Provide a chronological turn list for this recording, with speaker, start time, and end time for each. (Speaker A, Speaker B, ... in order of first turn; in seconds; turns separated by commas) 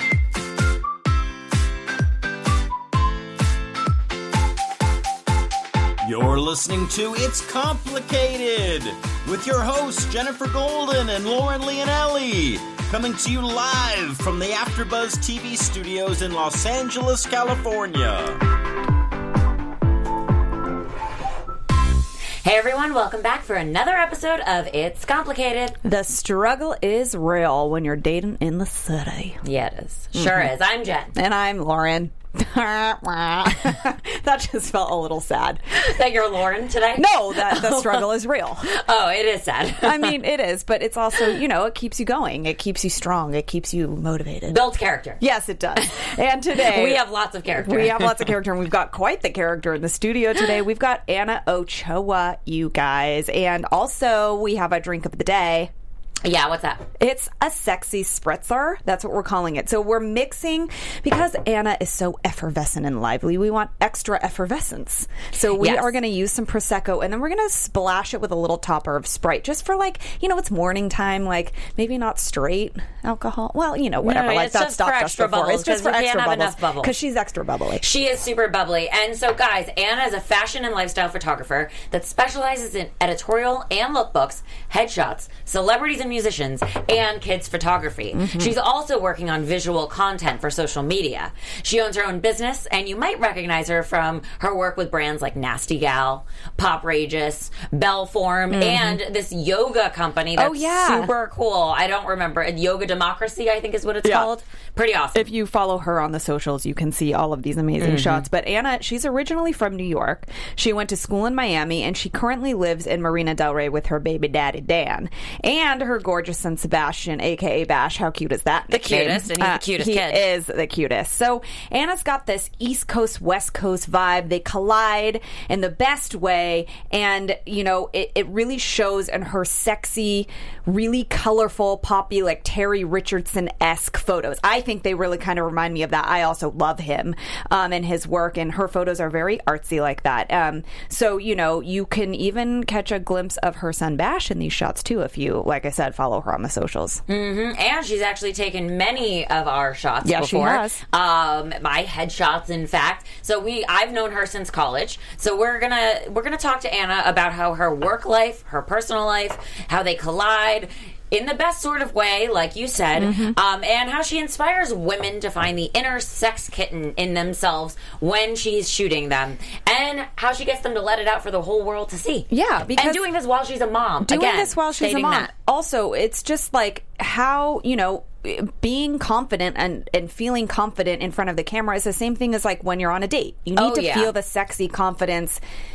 Speaker A: 6.0-18.4, Speaker B: 22.4-25.8, Speaker C: 25.8-29.4, Speaker B: 29.4-31.1, Speaker C: 30.1-30.5, Speaker C: 31.1-35.6, Speaker B: 35.7-38.1, Speaker C: 37.0-38.7, Speaker B: 38.6-40.2, Speaker C: 39.8-44.6, Speaker B: 44.5-45.2, Speaker C: 45.2-47.0, Speaker B: 46.6-48.3, Speaker C: 47.6-55.7, Speaker B: 56.2-56.9, Speaker C: 57.0-77.8, Speaker B: 65.6-66.0, Speaker B: 74.0-76.9, Speaker B: 77.8-105.3, Speaker C: 88.2-88.5, Speaker C: 98.5-99.0, Speaker C: 100.4-101.1, Speaker C: 104.0-104.3, Speaker C: 105.1-147.0, Speaker B: 107.8-108.2, Speaker B: 118.7-120.2, Speaker B: 147.1-175.3, Speaker C: 150.0-150.8, Speaker C: 163.0-163.4, Speaker C: 172.3-173.0, Speaker C: 174.0-185.4, Speaker B: 183.6-184.1